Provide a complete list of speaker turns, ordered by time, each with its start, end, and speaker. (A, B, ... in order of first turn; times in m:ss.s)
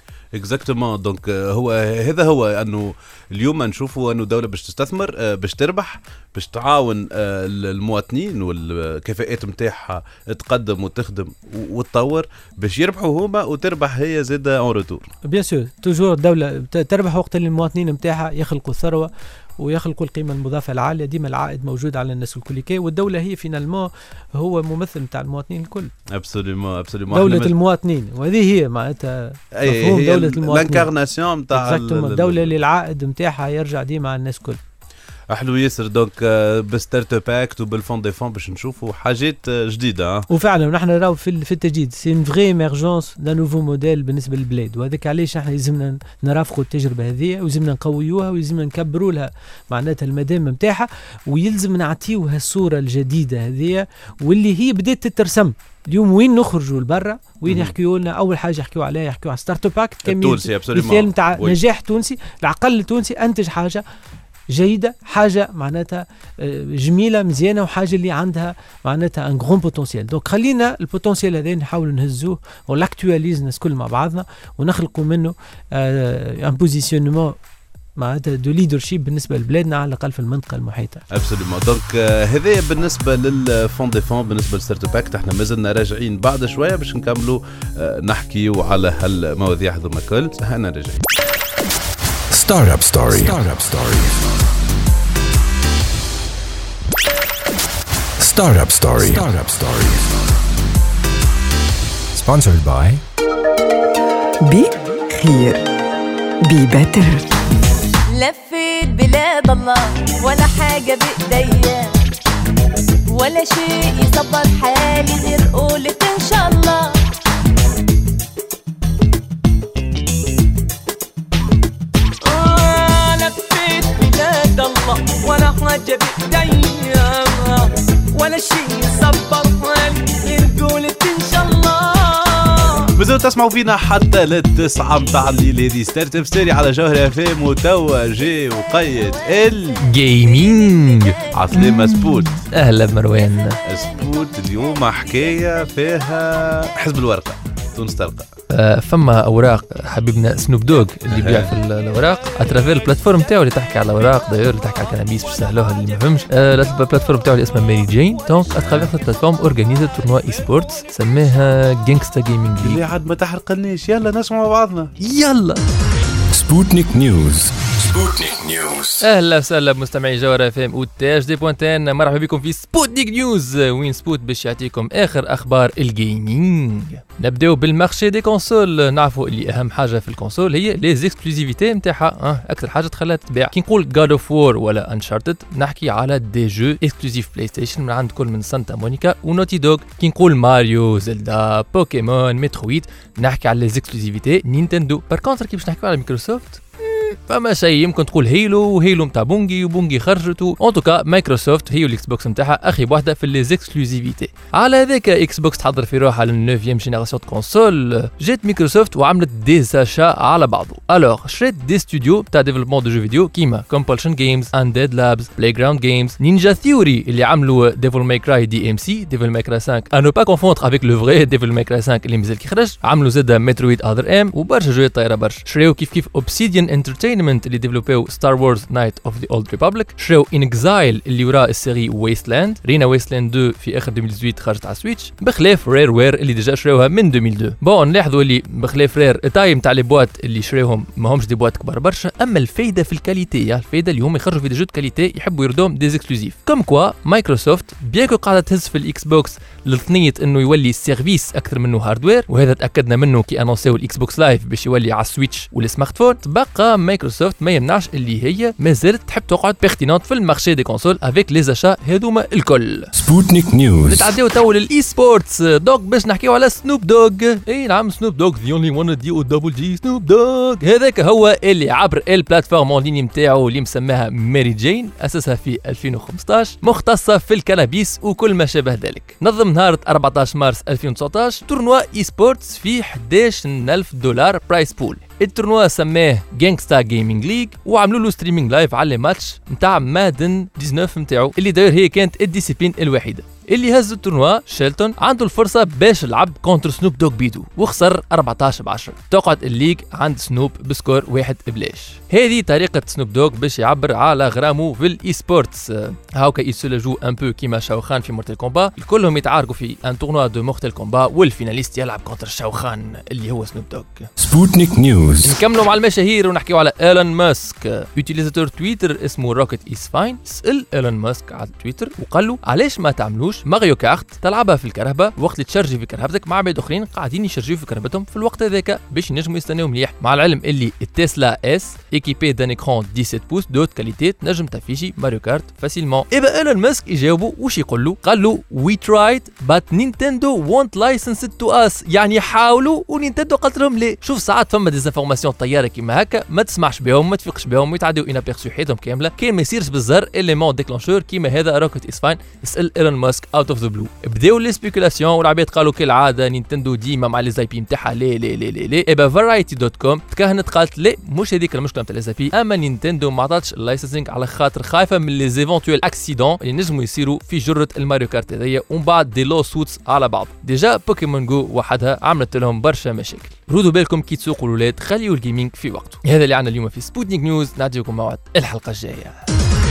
0:00.4-0:15.1 A
0:15.3-0:25.9 B
0:26.1-0:27.6 A
0:27.1-0:30.9 B
0:29.6-0:32.6 A
0:31.5-0:34.6 B
0:35.3-0:40.3 A
0:40.3-1:03.8 B
0:57.5-0:57.7 A
1:00.0-1:01.6 A
1:04.5-1:17.4 B
1:18.0-1:21.0 B
1:21.1-1:31.0 A
1:32.3-1:34.3 C
1:38.2-1:40.3 C
1:42.1-1:43.0 C
1:44.4-1:45.6 D
1:46.4-1:47.3 D
1:48.1-1:52.0 E
1:53.1-1:56.9 E
2:02.2-2:12.9 F
2:13.0-2:19.8 A
2:19.8-2:23.6 G
2:21.3-2:22.4 A
2:23.6-2:28.3 A
2:28.5-2:42.8 G
2:31.1-2:31.6 A
2:38.5-2:38.9 A
2:42.6-2:44.9 A
2:45.0-2:45.6 G
2:46.3-2:49.1 C
2:49.0-4:22.9 G
4:22.9-4:24.1 C
4:23.8-5:14.1 G
5:14.2-5:15.4 C
5:15.2-6:19.2 G